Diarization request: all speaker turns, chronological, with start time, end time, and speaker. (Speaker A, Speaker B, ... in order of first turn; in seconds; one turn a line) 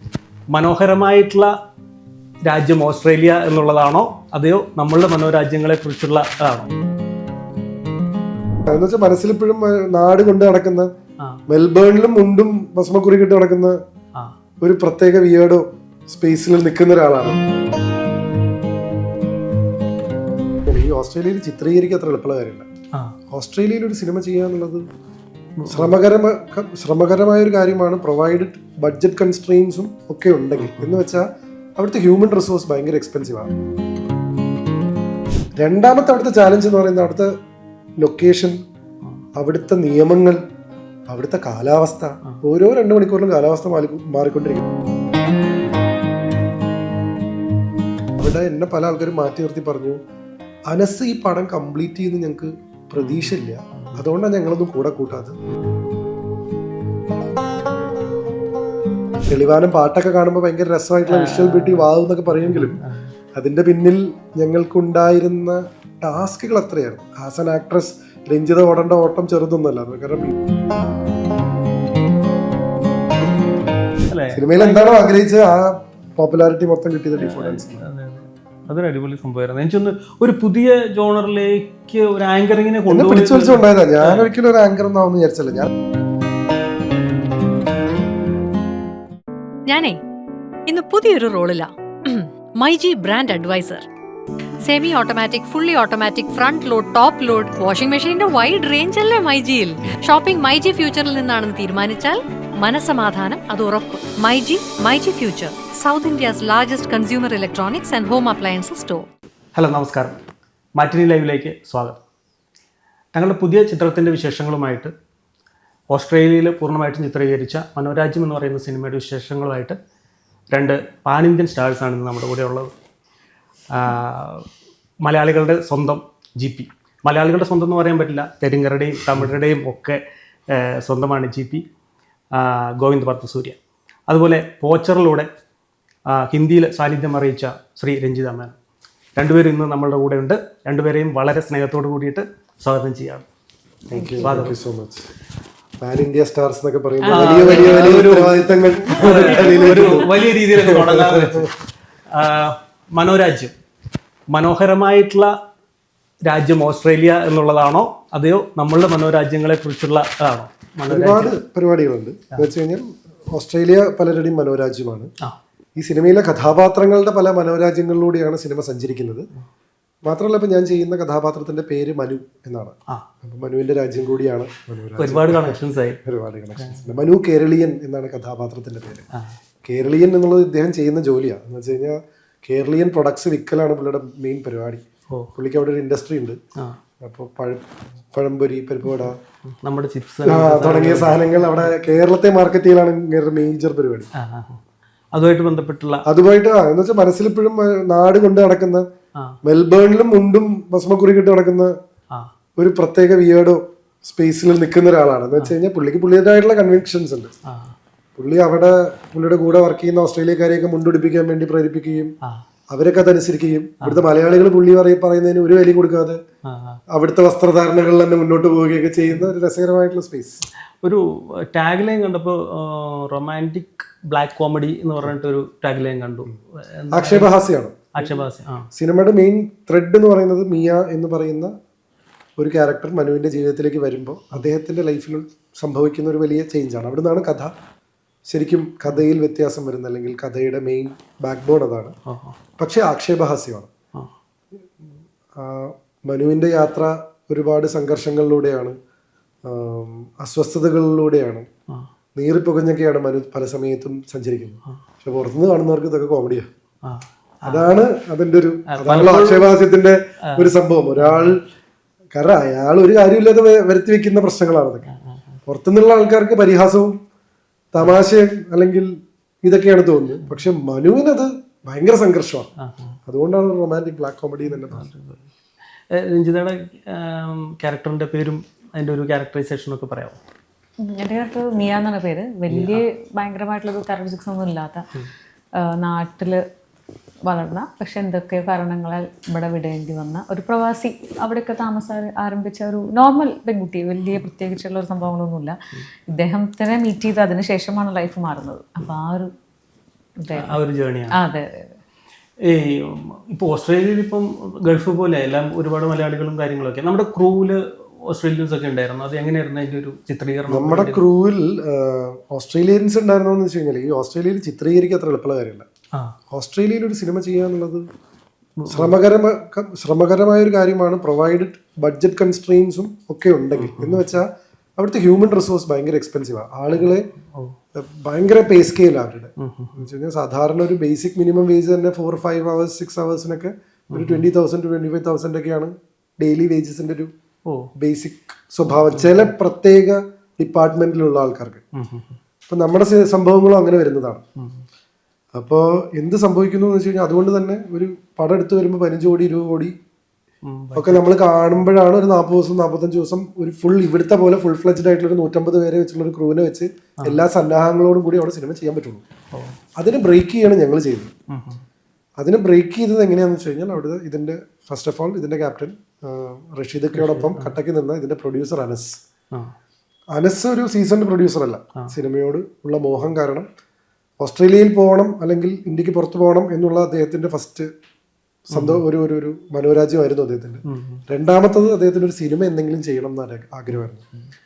Speaker A: 0.5-1.5
Speaker A: 2.5-6.7
Speaker B: 8.7-10.9
Speaker B: 11.5-13.8
Speaker B: 14.6-17.4
Speaker B: 20.7-22.7
Speaker B: 23.3-24.9
Speaker A: 25.6-25.9
Speaker B: 25.7-33.5
Speaker A: 30.6-31.0
Speaker B: 35.6-37.3
Speaker B: 38.0-38.6
Speaker B: 39.4-40.4
Speaker B: 41.1-44.6
Speaker B: 48.2-50.0
Speaker B: 50.7-55.4
Speaker A: 53.0-54.0
Speaker B: 59.3-62.8
Speaker A: 61.1-63.1
Speaker B: 63.4-70.3
Speaker A: 74.1-75.1
Speaker B: 74.3-77.8
Speaker A: 77.2-84.3
Speaker B: 82.9-85.7
Speaker C: 89.7-90.0
Speaker C: 90.7-93.9
Speaker C: 94.6-109.1
Speaker A: 109.6-110.2
Speaker A: 110.8-112.0
Speaker A: 113.2-114.9
Speaker A: 115.9-119.8
Speaker A: 120.5-122.7
Speaker A: 123.7-124.5
Speaker A: 125.0-130.0
Speaker A: 130.5-131.6
Speaker A: 132.3-133.6
Speaker A: 134.1-135.3
Speaker A: 136.1-138.6
Speaker A: 139.2-143.3
Speaker B: 143.9-145.1
Speaker D: 143.9-144.4
Speaker A: 144.2-144.6
Speaker B: 145.8-151.5
Speaker D: 147.0-148.1
Speaker A: 147.1-151.5
Speaker D: 148.9-150.1
Speaker A: 152.1-153.6
Speaker A: 154.3-155.3
Speaker A: 156.3-161.3
Speaker B: 160.9-165.1
Speaker B: 165.8-169.3
Speaker B: 170.1-179.1
Speaker A: 175.0-176.0
Speaker A: 176.6-176.9
Speaker B: 179.6-184.8
Speaker B: 185.3-186.4
Speaker B: 187.0-189.2
Speaker A: 189.0-191.7
Speaker B: 190.2-194.1
Speaker A: 194.2-194.6
Speaker A: 195.1-196.1
Speaker B: 196.1-198.8
Speaker B: 199.4-201.8
Speaker B: 202.6-207.3
Speaker A: 207.5-207.8
Speaker B: 208.2-212.1
Speaker B: 212.7-216.2
Speaker A: 216.4-216.8
Speaker B: 216.9-220.4
Speaker A: 220.8-227.3
Speaker B: 226.9-228.1
Speaker A: 227.9-228.7
Speaker B: 228.7-231.5
Speaker B: 232.4-237.5
Speaker B: 238.3-241.9
Speaker A: 242.1-242.4
Speaker B: 242.6-243.7
Speaker B: 245.3-248.8
Speaker B: 249.4-251.5
Speaker B: 252.2-256.5
Speaker A: 256.9-257.7
Speaker B: 257.5-261.4
Speaker A: 258.7-259.5
Speaker A: 260.3-261.4
Speaker B: 262.1-264.9
Speaker A: 264.9-265.4
Speaker B: 265.5-266.9
Speaker B: 267.7-268.9
Speaker B: 269.4-272.5
Speaker A: 272.6-273.0
Speaker B: 273.1-274.9
Speaker A: 274.5-275.3
Speaker A: 275.9-280.2
Speaker D: 280.8-284.9
Speaker A: 282.5-282.8
Speaker D: 285.6-286.4
Speaker D: 287.3-299.3
Speaker D: 300.2-300.6
Speaker A: 300.4-301.2
Speaker D: 301.1-301.8
Speaker A: 302.5-311.0
Speaker B: 310.5-315.7
Speaker B: 316.3-317.9
Speaker A: 318.6-318.9
Speaker B: 318.7-327.1
Speaker A: 323.6-324.2
Speaker A: 326.8-327.6
Speaker B: 327.8-337.1
Speaker A: 329.4-329.9
Speaker A: 333.9-334.3
Speaker B: 337.8-341.6
Speaker A: 338.7-339.3
Speaker A: 341.7-342.2
Speaker B: 342.5-344.2
Speaker A: 344.4-344.6
Speaker B: 345.4-349.8
Speaker A: 350.4-351.1
Speaker B: 350.8-359.0
Speaker B: 359.8-361.1
Speaker A: 361.3-361.6
Speaker B: 362.2-369.0
Speaker A: 366.9-367.6
Speaker B: 370.1-373.5
Speaker B: 374.2-377.7
Speaker B: 378.5-384.1
Speaker A: 378.5-378.8
Speaker A: 380.7-381.0